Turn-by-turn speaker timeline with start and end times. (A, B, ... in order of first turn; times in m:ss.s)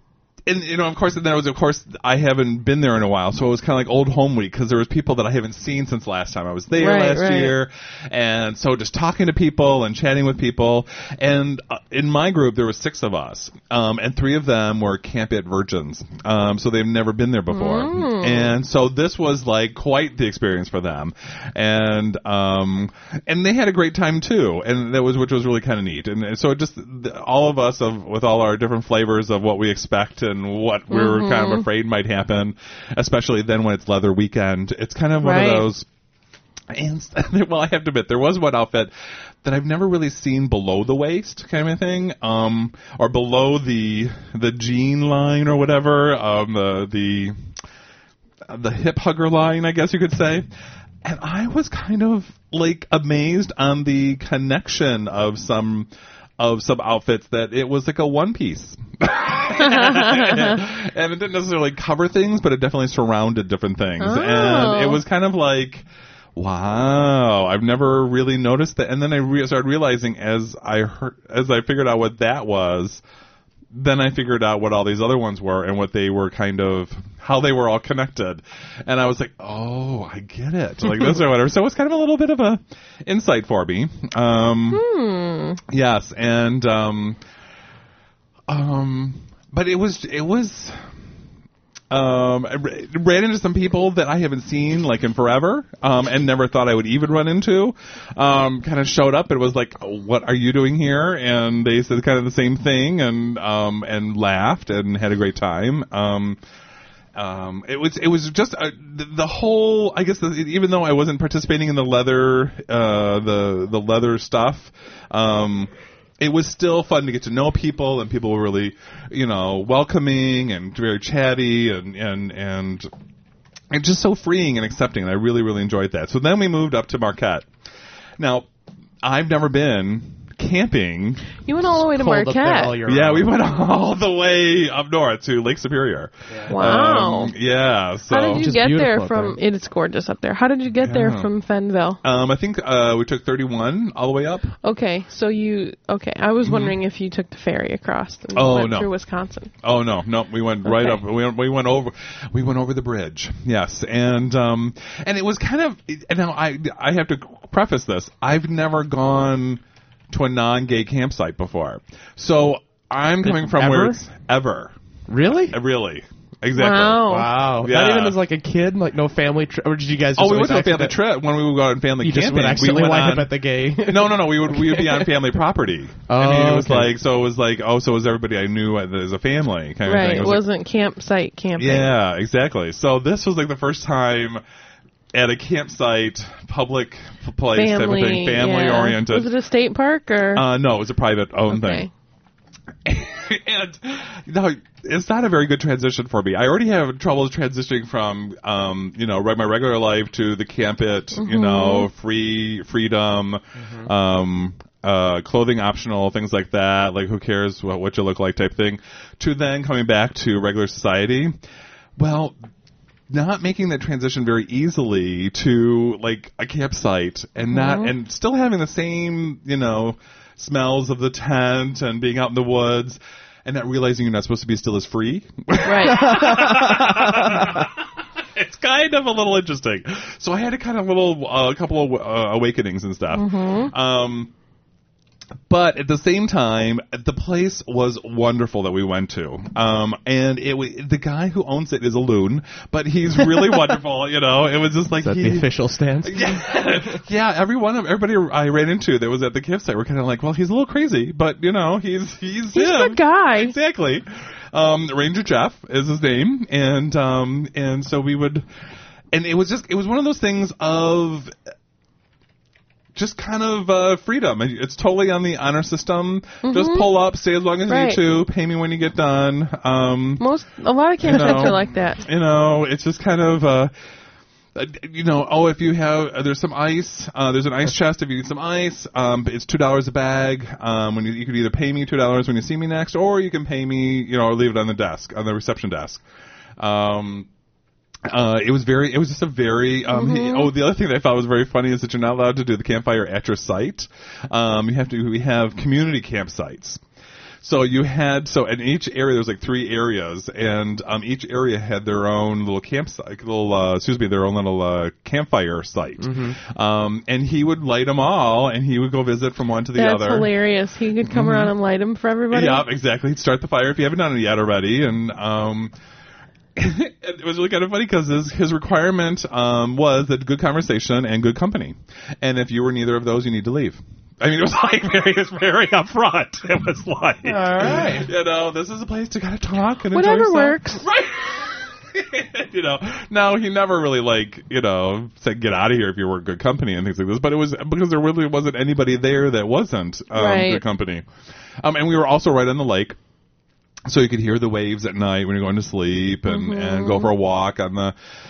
0:00.4-0:35.8 A
0:06.8-0:07.5 B
0:17.5-0:18.5 B
0:30.9-0:31.6 B
0:35.2-0:35.7 B
0:36.7-0:38.9 A
0:39.4-0:47.4 A
0:48.4-0:50.5 A
0:51.0-1:13.0 A
0:59.6-1:00.5 B
1:04.0-1:05.0 B
1:13.7-1:24.8 A
1:24.7-1:25.6 B
1:25.7-1:27.2 A
1:28.5-1:30.8 A
1:31.9-1:46.4 A
1:47.1-2:02.9 A
2:03.7-2:07.5 A
2:08.2-2:08.5 A
2:09.0-2:11.4 A
2:11.4-2:12.8 B
2:11.9-2:13.3 C
2:12.8-2:18.5 A
2:16.5-2:17.3 B
2:18.1-2:22.0 B
2:18.3-2:19.4 C
2:20.8-2:21.3 A
2:22.0-2:24.5 A
2:24.6-2:29.5 B
2:26.4-2:26.8 A
2:28.3-2:28.9 A
2:29.6-2:44.7 A
2:30.6-2:31.0 B
2:43.2-2:44.0 C
2:45.1-2:45.6 C
2:45.5-2:48.2 A
2:46.6-2:47.3 B
2:47.1-2:51.0 C
2:50.2-3:00.4 A
2:52.0-2:55.2 C
2:56.1-2:56.9 C
2:59.8-3:01.9 B
3:01.6-3:04.4 A
3:05.1-3:09.3 A
3:07.5-3:10.4 B
3:10.3-3:11.9 A
3:11.5-3:11.9 B
3:12.8-3:31.4 A
3:21.2-3:21.9 B
3:23.6-3:23.9 C
3:32.0-3:32.4 A
3:33.1-3:54.3 A
3:37.5-3:37.9 B
3:45.6-3:46.1 B
3:46.0-3:47.0 C
3:53.1-3:53.7 B
3:55.5-4:18.4 A
4:05.0-4:07.0 C
4:12.5-4:13.5 B
4:19.1-4:21.3 A
4:22.9-4:30.2 A
4:26.4-4:26.9 B
4:27.7-4:28.0 B
4:30.2-4:32.0 B
4:31.0-4:33.7 A
4:34.5-4:46.0 A
4:46.6-4:47.3 A
4:48.0-4:56.8 A
4:49.9-4:50.5 B
4:57.4-5:10.3 A
5:06.0-5:06.4 C
5:09.7-5:12.6 B
5:11.0-5:11.5 A
5:12.3-5:15.7 A
5:16.6-5:41.1 A
5:27.2-5:28.1 C
5:29.9-5:30.8 B
5:40.1-5:40.6 B
5:41.6-5:43.0 A
5:43.8-5:47.9 A
5:46.2-5:47.1 B